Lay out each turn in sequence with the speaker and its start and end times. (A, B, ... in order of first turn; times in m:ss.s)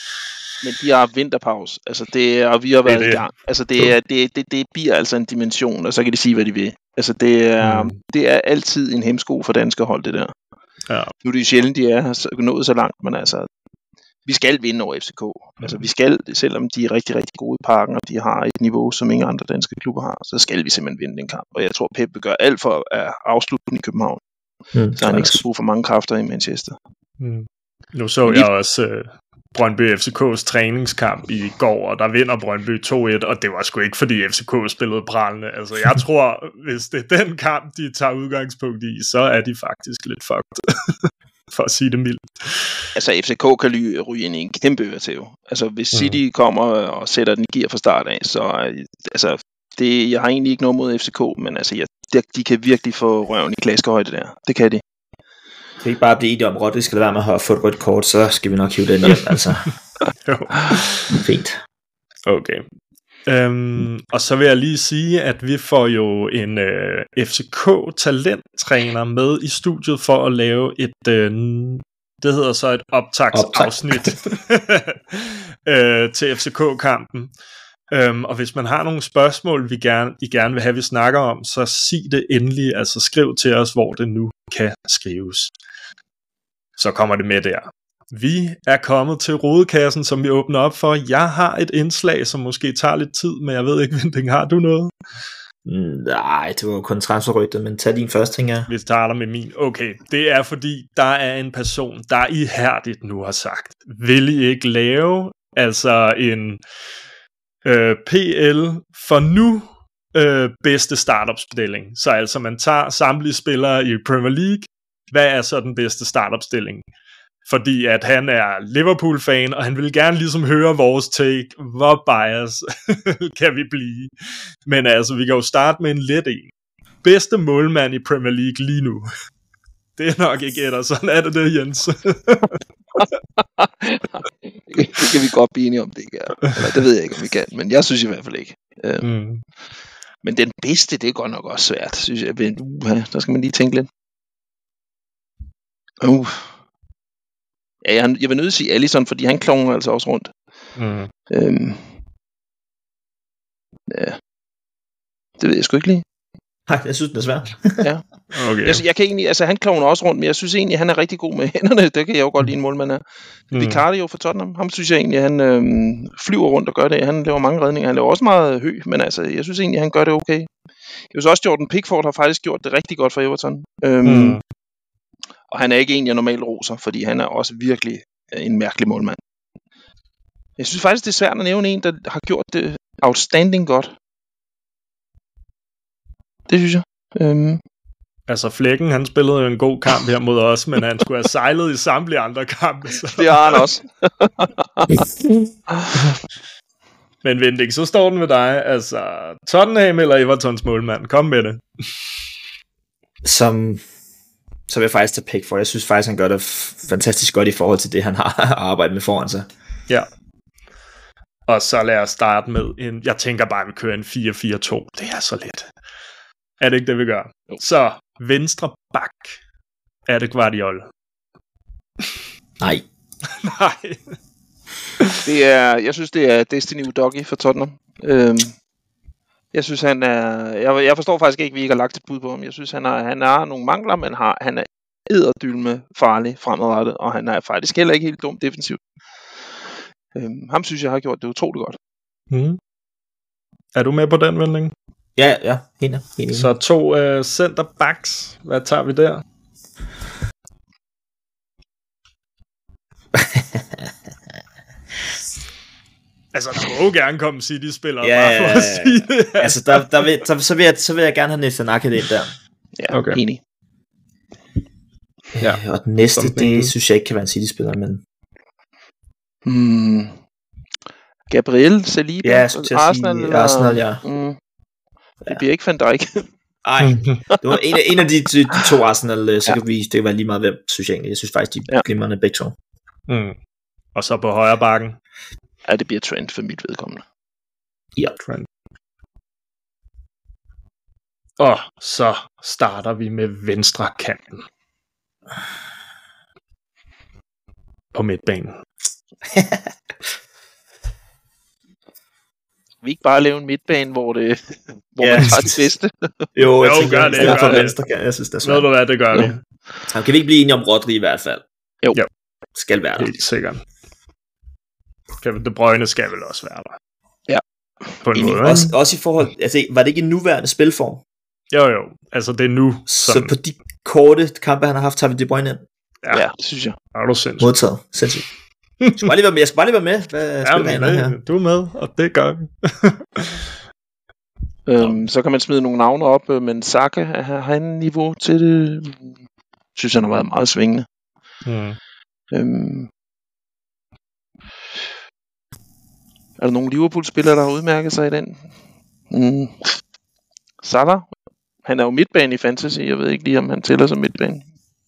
0:00.6-0:10.3 A
0:02.8-0:03.2 B
0:07.6-0:08.0 B
0:11.2-0:13.5 A
0:14.3-0:24.2 A
0:24.7-0:25.4 C
0:25.0-0:26.8 A
0:27.2-0:42.8 B
0:43.0-0:54.8 A
0:45.9-0:46.2 B
0:55.8-0:59.7 C
0:59.0-1:01.2 B
1:01.1-1:01.6 C
1:02.3-1:02.6 B
1:03.3-1:17.3 B
1:13.3-1:14.2 C
1:17.9-1:25.5 B
1:26.8-1:34.9 B
1:35.6-1:38.7 C
1:38.7-1:46.6 B
1:47.6-1:56.9 B
1:57.4-2:04.1 B
2:04.7-2:06.5 B
2:07.0-2:09.1 B
2:10.0-2:12.6 B
2:13.0-2:19.0 A
2:19.0-2:19.4 B
2:20.2-2:23.9 A
2:26.0-2:26.5 A
2:27.8-2:30.3 A
2:30.8-2:31.1 B
2:31.3-2:31.9 A
2:33.9-2:34.2 A
2:35.4-2:36.0 A
2:36.7-2:37.8 C
2:38.3-2:38.8 B
2:38.6-2:50.5 A
2:43.5-2:43.8 B
2:51.1-2:54.4 A
2:54.0-2:54.4 B
2:55.5-2:59.2 A
3:00.6-3:04.0 A
3:06.5-3:07.6 A
3:08.3-3:13.6 B
3:13.1-3:15.0 A
3:15.7-3:16.0 A
3:17.2-3:21.6 B
3:23.2-3:23.8 C
3:24.7-3:29.5 C
3:31.5-3:35.7 B
3:36.6-3:39.4 B
3:40.1-3:40.9 B
3:42.6-3:42.8 C
3:43.4-3:44.0 B
3:45.2-3:48.6 A
3:49.5-3:58.8 A
4:00.1-4:01.8 A
4:02.3-4:02.6 B
4:03.8-4:04.7 B
4:05.2-4:06.5 C
4:06.3-4:09.2 B
4:13.1-4:13.9 C
4:16.3-4:19.8 B
4:18.0-4:22.3 C
4:22.8-4:23.4 A
4:22.9-4:23.2 B
4:25.4-4:28.0 C
4:26.2-4:26.7 B
4:29.4-4:30.2 A
4:31.3-4:34.4 A
4:32.2-4:34.0 C
4:35.2-4:36.3 A
4:36.6-4:42.6 C
4:36.8-4:37.2 B
4:43.1-4:43.4 B
4:44.0-4:45.0 B
4:45.7-4:47.0 A
4:48.2-4:48.5 B
4:51.4-4:54.4 B
4:57.9-4:58.6 B
4:59.3-4:59.7 C
5:02.8-5:06.3 A
5:05.0-5:05.6 C
5:06.4-5:08.7 C
5:06.6-5:07.8 B
5:06.9-5:07.6 A
5:08.4-5:09.4 B
5:09.9-5:11.4 C
5:12.6-5:13.2 C
5:13.0-5:13.6 B
5:15.2-5:16.8 B
5:17.3-5:18.7 A
5:18.0-5:18.6 B
5:18.4-5:21.0 C
5:21.5-5:23.3 B
5:22.9-5:25.7 C
5:26.1-5:26.8 A
5:26.9-5:27.5 B
5:27.4-5:28.3 C
5:28.8-5:29.1 B
5:29.0-5:31.2 C
5:30.4-5:33.5 B
5:34.7-5:39.1 A
5:39.8-5:40.9 A
5:41.5-5:41.8 B
5:42.3-5:42.9 A
5:46.4-5:48.4 A
5:49.1-5:49.8 A
5:50.6-5:51.1 A
5:51.6-5:54.4 A